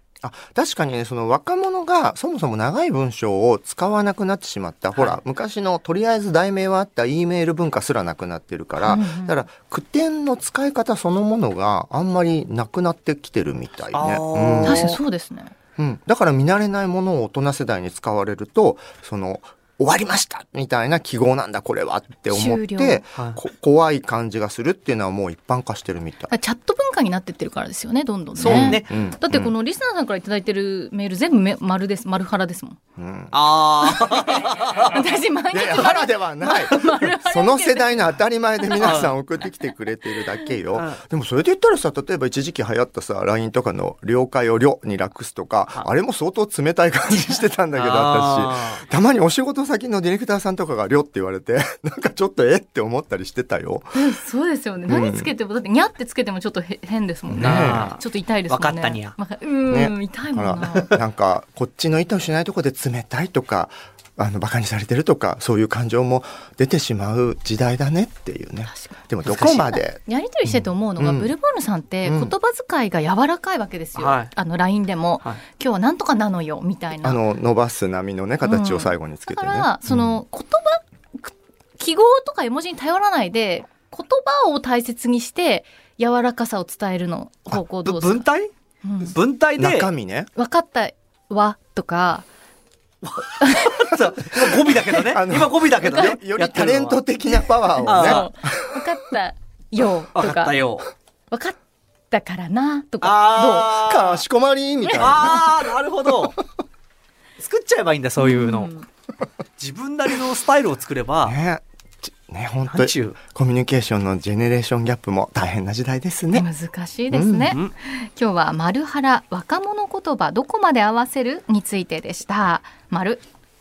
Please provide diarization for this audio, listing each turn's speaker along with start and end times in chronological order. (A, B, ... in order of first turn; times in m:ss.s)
0:00.2-0:15.0 A
0:08.8-0:09.4 B
0:13.9-0:15.0 C
0:14.6-0:15.5 B
0:15.8-0:26.3 A
0:22.3-0:23.0 B
0:23.1-0:23.4 C
0:26.3-0:32.8 B
0:28.3-0:28.9 C
0:28.4-0:29.5 A
0:33.0-0:33.4 A
0:33.3-0:34.9 C
0:33.8-0:39.1 B
0:35.5-0:54.2 A
0:38.8-0:39.1 C
0:40.7-0:41.0 C
0:47.7-0:48.8 C
0:53.9-1:01.0 B
0:54.9-0:55.3 A
0:57.3-0:57.9 A
0:57.4-0:59.1 C
0:59.7-1:11.3 A
1:08.7-1:09.0 B
1:09.2-1:09.7 C
1:09.8-1:17.2 B
1:12.0-1:12.3 A
1:14.0-1:14.3 C
1:17.0-1:20.2 A
1:18.4-1:28.3 B
1:27.8-1:28.5 C
1:28.8-1:29.2 B
1:29.0-1:29.9 C
1:29.6-1:30.3 A
1:30.3-1:32.2 B
1:33.0-1:37.0 C
1:33.4-1:33.9 B
1:34.8-1:38.8 A
1:35.8-1:36.2 B
1:37.3-1:40.6 B
1:37.8-1:38.3 C
1:40.1-1:40.9 C
1:41.3-1:41.6 B
1:42.1-1:43.8 B
1:43.0-1:44.2 C
1:43.7-1:45.6 A
1:45.0-1:46.3 C
1:47.4-1:48.7 C
1:48.2-1:48.8 B
1:49.6-1:51.4 C
1:51.2-1:56.4 A
1:52.7-1:53.2 C
1:56.3-2:03.2 B
1:57.1-1:57.6 A